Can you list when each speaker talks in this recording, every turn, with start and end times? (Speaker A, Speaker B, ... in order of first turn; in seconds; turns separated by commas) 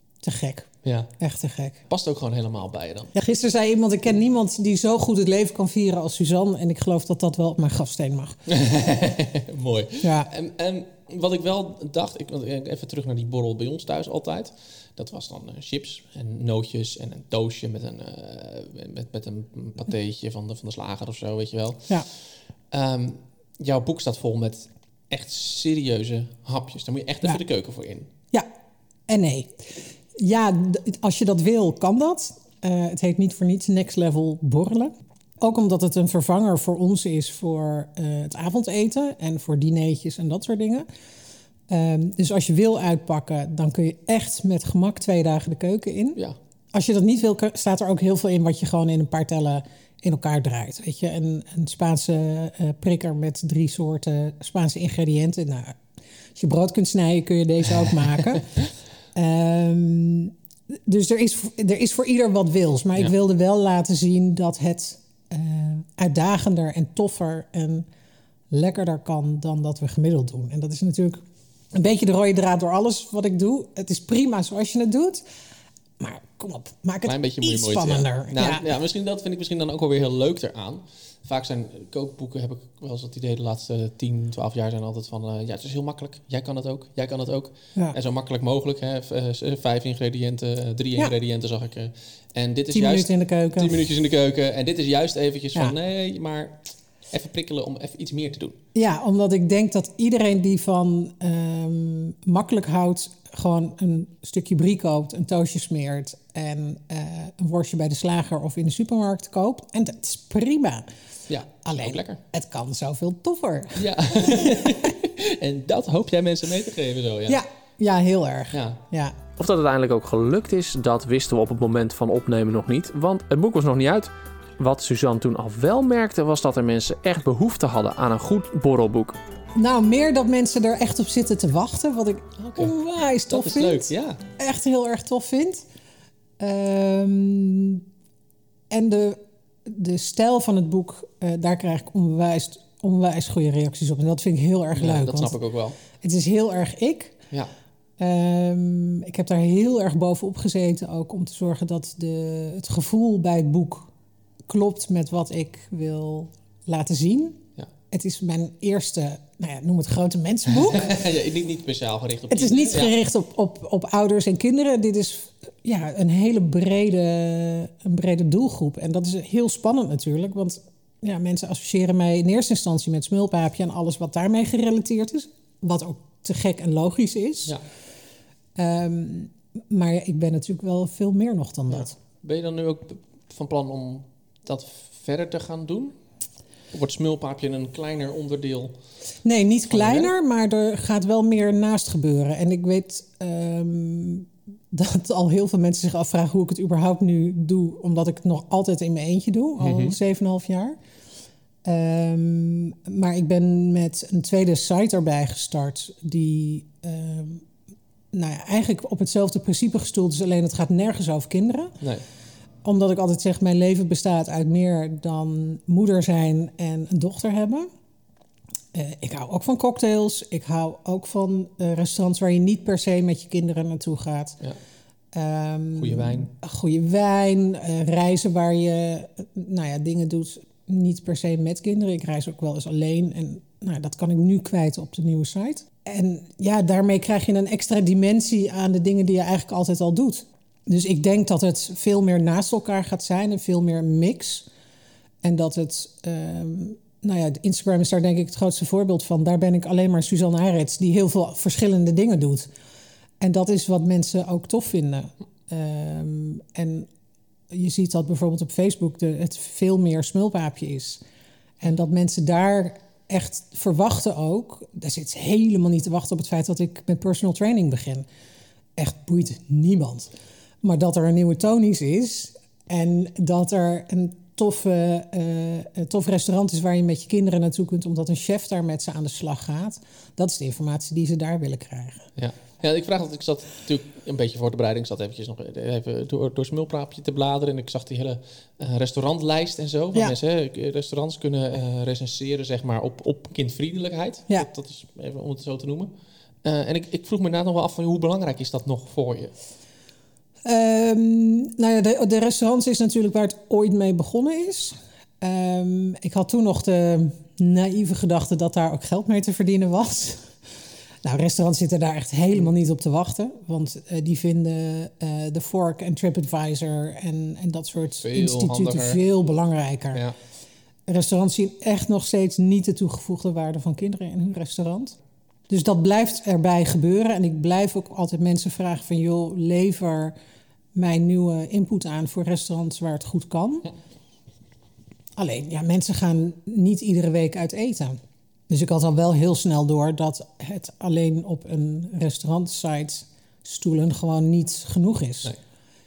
Speaker A: 0.2-1.8, Speaker B: 0.8-1.1, Speaker B: 1.9-3.1, Speaker A: 3.1-8.4, Speaker B: 8.5-28.1, Speaker A: 10.0-10.3, Speaker A: 29.1-40.9, Speaker A: 41.7-46.2, Speaker A: 46.7-55.8, Speaker A: 56.4-67.9, Speaker A: 68.5-71.2, Speaker A: 71.7-75.2, Speaker A: 76.0-78.7, Speaker B: 77.1-98.6, Speaker A: 92.7-93.8, Speaker A: 98.8-110.9, Speaker B: 111.3-112.2, Speaker A: 111.6-114.9, Speaker B: 113.8-117.4, Speaker A: 117.3-119.2, Speaker B: 118.5-118.8, Speaker C: 119.4-129.2, Speaker A: 129.6-135.7, Speaker B: 132.4-134.2, Speaker A: 136.4-137.8, Speaker A: 138.7-145.4, Speaker B: 144.8-145.8, Speaker A: 145.9-147.2, Speaker A: 148.0-153.9, Speaker A: 154.5-161.1, Speaker B: 160.7-162.9, Speaker A: 162.3-177.6, Speaker A: 178.6-181.9, Speaker B: 181.7-186.0, Speaker B: 186.7-188.8, Speaker A: 189.2-200.8, Speaker B: 189.7-190.1, Speaker B: 199.6-200.0, Speaker A: 201.6-207.5, Speaker A: 208.1-211.8, Speaker A: 212.6-217.7, Speaker A: 218.7-224.4, Speaker A: 225.1-244.5, Speaker B: 225.8-226.3, Speaker A: 245.2-252.5, Speaker A: 253.2-256.9, Speaker A: 257.5-261.0, Speaker A: 261.6-268.1, Speaker A: 268.8-282.1, Speaker B: 282.2-295.9, Speaker B: 296.4-299.3, Speaker A: 300.4-310.4, Speaker A: 311.0-320.1, Speaker B: 318.0-319.0, Speaker A: 320.9-325.0, Speaker A: 325.5-330.1, Speaker A: 330.8-333.7, Speaker A: 335.2-345.3